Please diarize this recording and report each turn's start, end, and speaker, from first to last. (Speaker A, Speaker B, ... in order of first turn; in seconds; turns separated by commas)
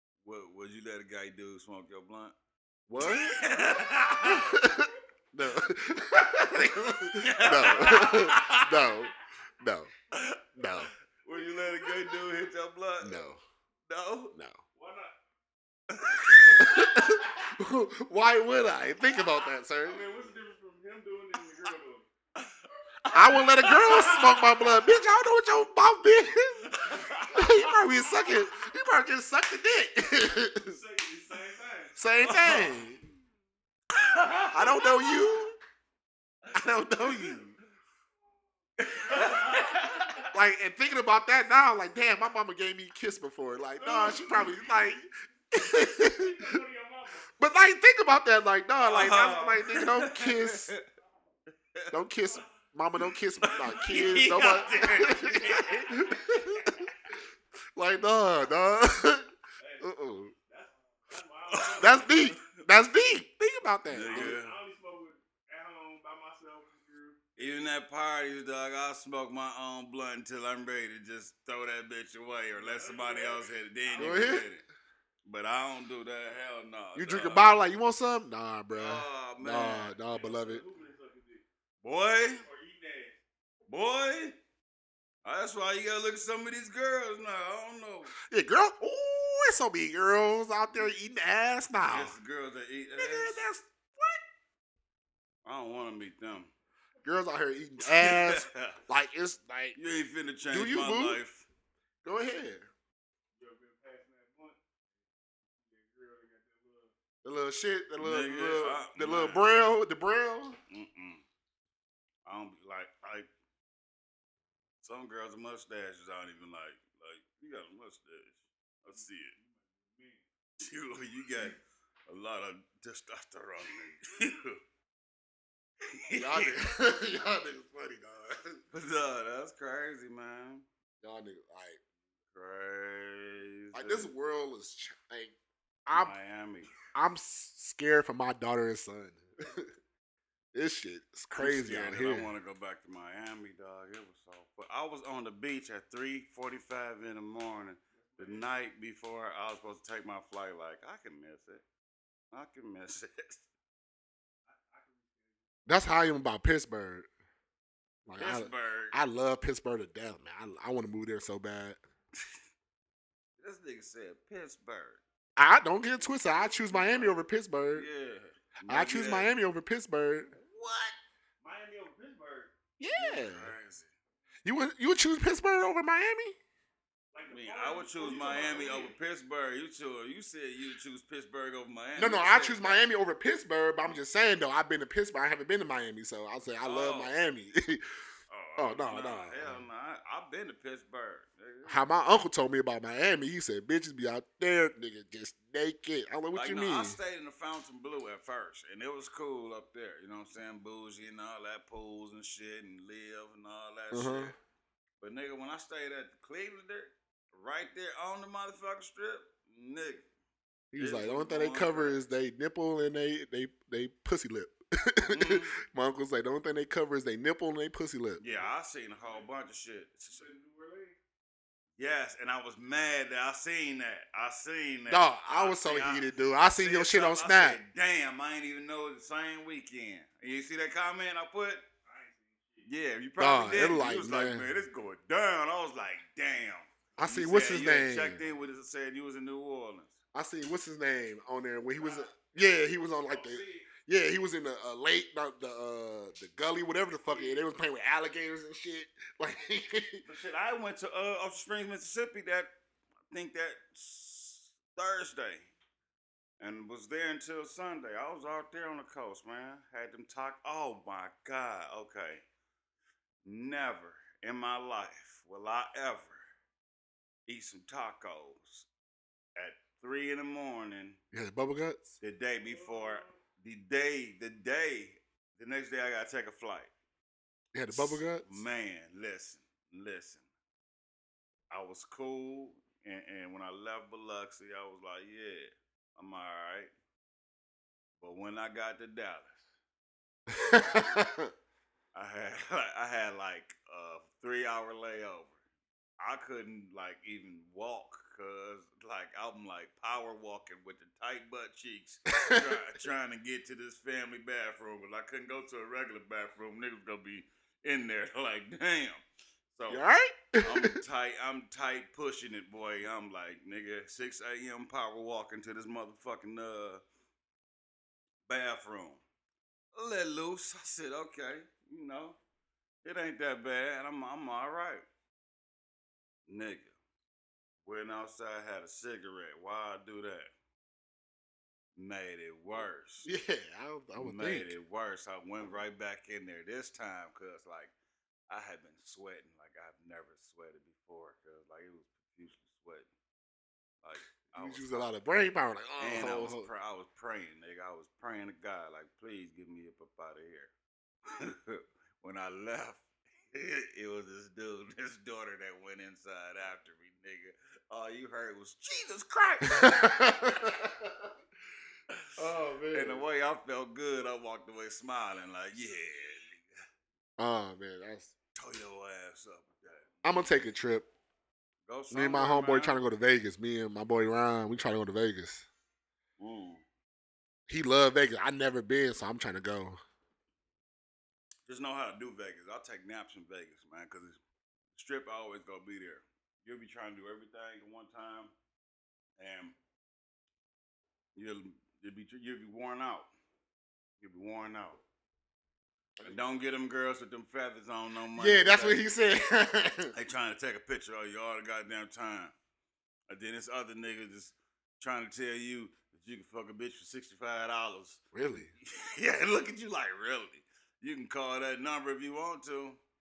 Speaker A: 0.2-2.4, Speaker B: 2.9-3.4, Speaker A: 3.0-4.6, Speaker B: 4.2-9.9, Speaker A: 7.1-8.8, Speaker C: 7.8-8.2, Speaker A: 10.1-13.2, Speaker B: 10.6-10.9, Speaker C: 11.3-12.2, Speaker B: 13.0-13.4, Speaker A: 13.9-14.3, Speaker B: 14.3-14.6, Speaker C: 14.8-15.2, Speaker A: 15.9-16.7, Speaker C: 16.3-17.6, Speaker B: 16.6-20.0, Speaker C: 19.8-22.1, Speaker A: 23.1-24.5, Speaker B: 23.1-26.8, Speaker C: 23.7-24.6, Speaker A: 26.7-27.5, Speaker C: 26.9-27.4, Speaker B: 27.3-30.8, Speaker C: 30.5-32.0, Speaker B: 32.0-33.0, Speaker A: 32.2-32.8, Speaker A: 33.9-35.2, Speaker B: 34.5-35.6, Speaker A: 36.4-37.4, Speaker B: 36.5-37.5, Speaker A: 38.8-40.3, Speaker C: 38.9-40.3, Speaker B: 40.3-46.6, Speaker C: 43.8-44.8, Speaker C: 45.8-47.4, Speaker B: 47.4-50.7, Speaker A: 48.8-50.8, Speaker B: 51.9-56.9, Speaker A: 53.0-55.8, Speaker C: 53.5-56.9, Speaker B: 57.8-59.3, Speaker C: 59.6-59.9, Speaker B: 59.8-60.3, Speaker C: 60.5-62.4, Speaker A: 61.5-62.6, Speaker B: 61.8-64.4, Speaker A: 63.9-64.6, Speaker C: 64.0-67.2, Speaker A: 67.4-74.7, Speaker C: 72.5-74.4, Speaker B: 74.0-74.5, Speaker A: 75.2-77.5, Speaker B: 77.0-80.6, Speaker A: 78.7-80.0, Speaker C: 80.0-81.4, Speaker A: 81.8-82.5, Speaker C: 82.4-83.2, Speaker A: 83.7-84.4, Speaker A: 85.2-88.1, Speaker B: 88.3-92.2, Speaker A: 91.9-93.5, Speaker B: 93.0-94.2, Speaker A: 95.5-96.5, Speaker B: 97.0-99.8, Speaker A: 97.8-98.8, Speaker A: 99.8-101.5, Speaker B: 100.5-101.2, Speaker B: 102.0-102.7, Speaker C: 103.4-104.6, Speaker C: 105.6-106.9, Speaker B: 107.2-110.6, Speaker A: 108.0-109.5, Speaker A: 110.7-111.2, Speaker A: 112.3-113.3, Speaker A: 114.8-119.3, Speaker C: 118.9-120.3, Speaker A: 120.6-124.6, Speaker A: 125.9-126.6, Speaker B: 126.2-128.6, Speaker A: 128.7-130.7, Speaker B: 131.0-131.8, Speaker A: 132.3-134.1, Speaker B: 133.7-136.1, Speaker A: 135.9-136.7, Speaker B: 136.9-139.7, Speaker B: 140.5-142.3, Speaker A: 141.3-151.6, Speaker C: 147.9-148.5, Speaker A: 152.3-153.4, Speaker C: 154.5-155.5, Speaker B: 155.7-157.1, Speaker B: 158.1-161.8, Speaker A: 158.2-159.0, Speaker A: 163.4-165.0, Speaker B: 165.4-167.9, Speaker C: 165.9-167.2, Speaker A: 167.7-169.3, Speaker B: 168.7-170.3, Speaker A: 170.4-171.0, Speaker C: 171.4-172.5, Speaker B: 172.8-173.5, Speaker A: 172.9-173.9, Speaker B: 174.4-176.4, Speaker C: 177.1-179.0, Speaker A: 177.3-182.8, Speaker B: 182.0-187.8, Speaker A: 186.6-187.1, Speaker A: 188.3-191.8, Speaker B: 188.6-189.6, Speaker B: 191.7-197.0, Speaker A: 196.3-204.3, Speaker B: 203.9-204.3, Speaker A: 205.0-210.1, Speaker B: 210.7-218.2, Speaker A: 210.8-212.0, Speaker A: 215.1-215.6, Speaker A: 218.2-220.3, Speaker C: 218.2-219.3, Speaker C: 220.1-221.0, Speaker A: 221.8-231.6, Speaker B: 224.9-227.6, Speaker C: 231.8-232.7, Speaker A: 232.7-240.0, Speaker B: 233.2-234.5, Speaker B: 237.0-238.2, Speaker B: 240.1-250.0, Speaker C: 241.8-242.1, Speaker C: 243.0-243.7, Speaker C: 247.1-247.5, Speaker A: 250.0-252.5, Speaker A: 253.1-255.5, Speaker A: 256.4-262.2, Speaker A: 263.2-266.2, Speaker A: 267.3-268.7, Speaker A: 269.4-271.0, Speaker B: 271.1-271.9, Speaker A: 272.0-276.7, Speaker C: 272.4-273.2, Speaker B: 277.5-278.2, Speaker A: 277.7-280.3, Speaker A: 281.5-286.7, Speaker A: 288.0-289.4, Speaker B: 290.3-291.3, Speaker A: 290.5-291.0, Speaker A: 291.9-295.4, Speaker A: 296.0-309.0, Speaker B: 302.1-302.6, Speaker A: 309.5-309.8, Speaker B: 309.7-310.8, Speaker A: 310.4-316.8, Speaker A: 318.3-319.0, Speaker A: 319.7-322.2, Speaker A: 322.8-324.9, Speaker A: 326.3-326.7, Speaker A: 327.6-330.3, Speaker A: 331.8-333.1, Speaker B: 333.1-334.5, Speaker A: 334.0-337.7, Speaker A: 338.3-342.9, Speaker A: 343.8-344.9, Speaker B: 344.3-346.5, Speaker A: 345.8-350.5, Speaker A: 351.1-360.1, Speaker B: 359.4-361.0, Speaker B: 362.2-363.1, Speaker A: 362.7-366.4, Speaker B: 367.2-368.1, Speaker A: 368.4-370.0, Speaker B: 370.0-370.9, Speaker A: 371.7-372.8, Speaker B: 371.9-375.5, Speaker A: 376.2-376.6, Speaker B: 377.5-379.8, Speaker A: 381.5-384.2, Speaker A: 384.7-388.3, Speaker A: 389.2-389.6, Speaker A: 391.2-393.1, Speaker A: 394.0-394.8, Speaker B: 396.0-396.3, Speaker A: 396.0-398.9, Speaker B: 398.2-399.9, Speaker A: 399.9-402.4, Speaker A: 403.1-408.0, Speaker B: 408.1-408.5, Speaker A: 408.6-412.8